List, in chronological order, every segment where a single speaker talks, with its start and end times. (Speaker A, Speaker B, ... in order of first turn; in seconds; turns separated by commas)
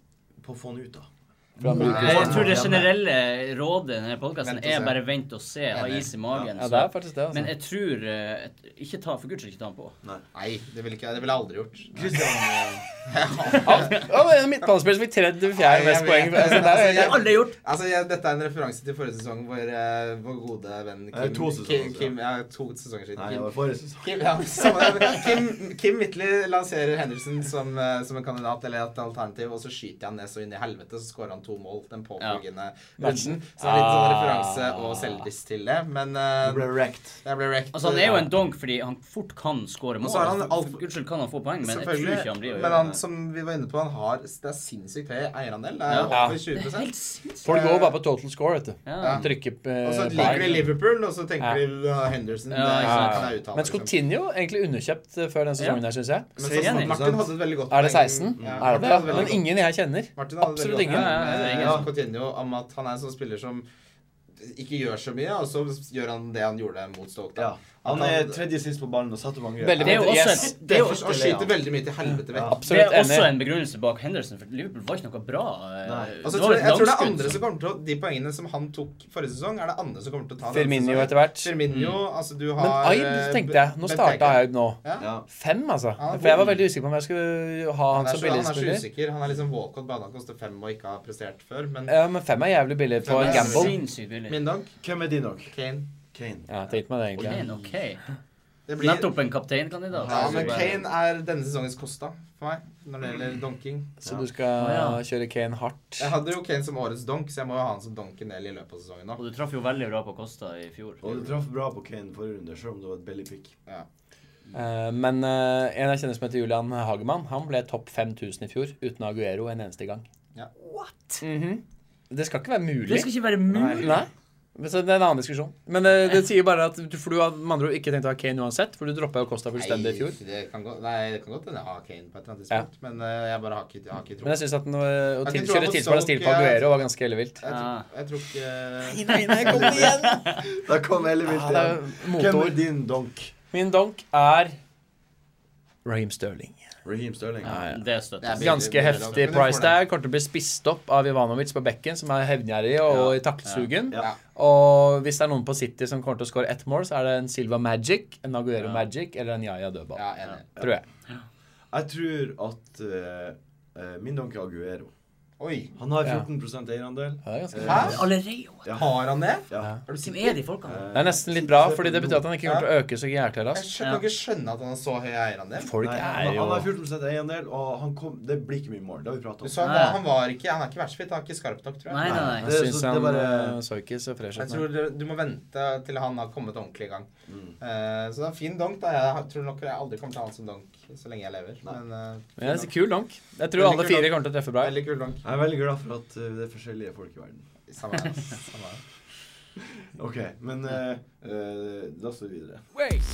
Speaker A: 0.4-2.9, Speaker B: 1.6-2.6, Speaker C: 1.7-2.6, Speaker D: 1.8-10.0, Speaker C: 4.4-4.9, Speaker C: 5.7-6.1, Speaker A: 6.3-6.5, Speaker B: 6.5-7.5, Speaker C: 10.3-12.2, Speaker A: 11.9-12.8, Speaker C: 13.1-14.1, Speaker B: 13.6-17.2, Speaker C: 15.5-36.7, Speaker D: 16.4-17.6, Speaker A: 21.1-22.1, Speaker A: 23.1-25.2, Speaker B: 33.0-35.2, Speaker A: 36.4-37.2, Speaker C: 37.2-38.3, Speaker D: 37.7-42.9, Speaker C: 40.0-40.8, Speaker C: 41.6-48.0, Speaker A: 42.5-43.0, Speaker D: 45.9-47.5, Speaker B: 46.0-46.4, Speaker B: 47.4-50.7, Speaker D: 48.9-49.2, Speaker C: 49.0-49.3, Speaker C: 49.8-53.9, Speaker D: 50.1-50.7, Speaker D: 52.5-53.3, Speaker B: 52.8-56.3, Speaker A: 56.4-57.3, Speaker D: 56.4-57.0, Speaker C: 56.4-59.5, Speaker B: 57.7-61.8, Speaker A: 58.4-59.3, Speaker C: 60.1-63.6, Speaker D: 60.9-61.7, Speaker A: 61.5-61.9, Speaker C: 64.4-68.4, Speaker A: 67.3-70.4, Speaker B: 69.6-70.5, Speaker D: 69.8-71.5, Speaker C: 70.3-72.6, Speaker A: 72.3-72.6, Speaker B: 72.5-73.4, Speaker D: 72.7-77.4, Speaker A: 75.8-76.2, Speaker C: 76.2-85.1, Speaker B: 80.5-81.5, Speaker D: 81.7-82.0, Speaker B: 82.6-88.8, Speaker A: 85.0-85.2, Speaker C: 86.0-86.6, Speaker C: 87.9-91.9, Speaker B: 91.9-93.8, Speaker C: 93.0-94.7, Speaker D: 93.1-94.4, Speaker A: 94.8-95.5, Speaker C: 95.5-95.9, Speaker A: 96.1-96.5, Speaker B: 96.5-97.4, Speaker A: 97.2-97.4, Speaker D: 97.2-98.0, Speaker C: 98.7-99.1, Speaker D: 98.8-100.8, Speaker A: 99.9-100.8, Speaker C: 100.0-103.9, Speaker B: 104.0-106.1, Speaker D: 104.6-105.0, Speaker C: 106.0-109.2, Speaker D: 109.2-111.0, Speaker A: 111.0-113.5, Speaker B: 114.5-120.0, Speaker D: 120.6-121.2, Speaker B: 121.2-123.1, Speaker D: 122.8-124.0, Speaker A: 123.5-123.9, Speaker B: 123.7-130.2, Speaker C: 129.6-134.4, Speaker B: 134.2-137.4, Speaker C: 135.2-136.7, Speaker C: 137.4-139.1, Speaker D: 137.4-137.9, Speaker B: 138.9-140.4, Speaker D: 139.1-140.4, Speaker A: 139.4-143.3, Speaker B: 141.2-142.6, Speaker B: 143.5-144.6, Speaker B: 145.8-146.6, Speaker A: 146.8-147.6, Speaker B: 147.4-147.8, Speaker D: 147.5-148.6, Speaker C: 148.2-149.8, Speaker B: 148.3-160.0, Speaker D: 153.4-153.7, Speaker C: 159.9-160.5, Speaker B: 160.6-160.8, Speaker A: 161.7-164.9, Speaker C: 165.4-165.7, Speaker A: 165.7-168.1, Speaker B: 167.2-168.0, Speaker D: 167.6-168.7, Speaker C: 167.7-168.0, Speaker A: 168.6-169.7, Speaker C: 168.7-170.4, Speaker D: 170.0-170.8, Speaker A: 170.7-172.3, Speaker B: 170.9-173.7, Speaker C: 173.5-175.7, Speaker D: 173.8-174.0, Speaker B: 175.6-176.7, Speaker A: 175.8-179.6, Speaker C: 179.4-182.2, Speaker D: 179.6-180.0, Speaker D: 181.9-182.5, Speaker A: 182.0-183.6, Speaker B: 182.1-184.7, Speaker C: 184.4-187.1, Speaker A: 187.3-187.6, Speaker C: 187.6-192.7, Speaker B: 192.4-194.7, Speaker C: 193.6-195.2, Speaker A: 195.2-197.4, Speaker C: 197.7-198.8, Speaker A: 199.8-202.6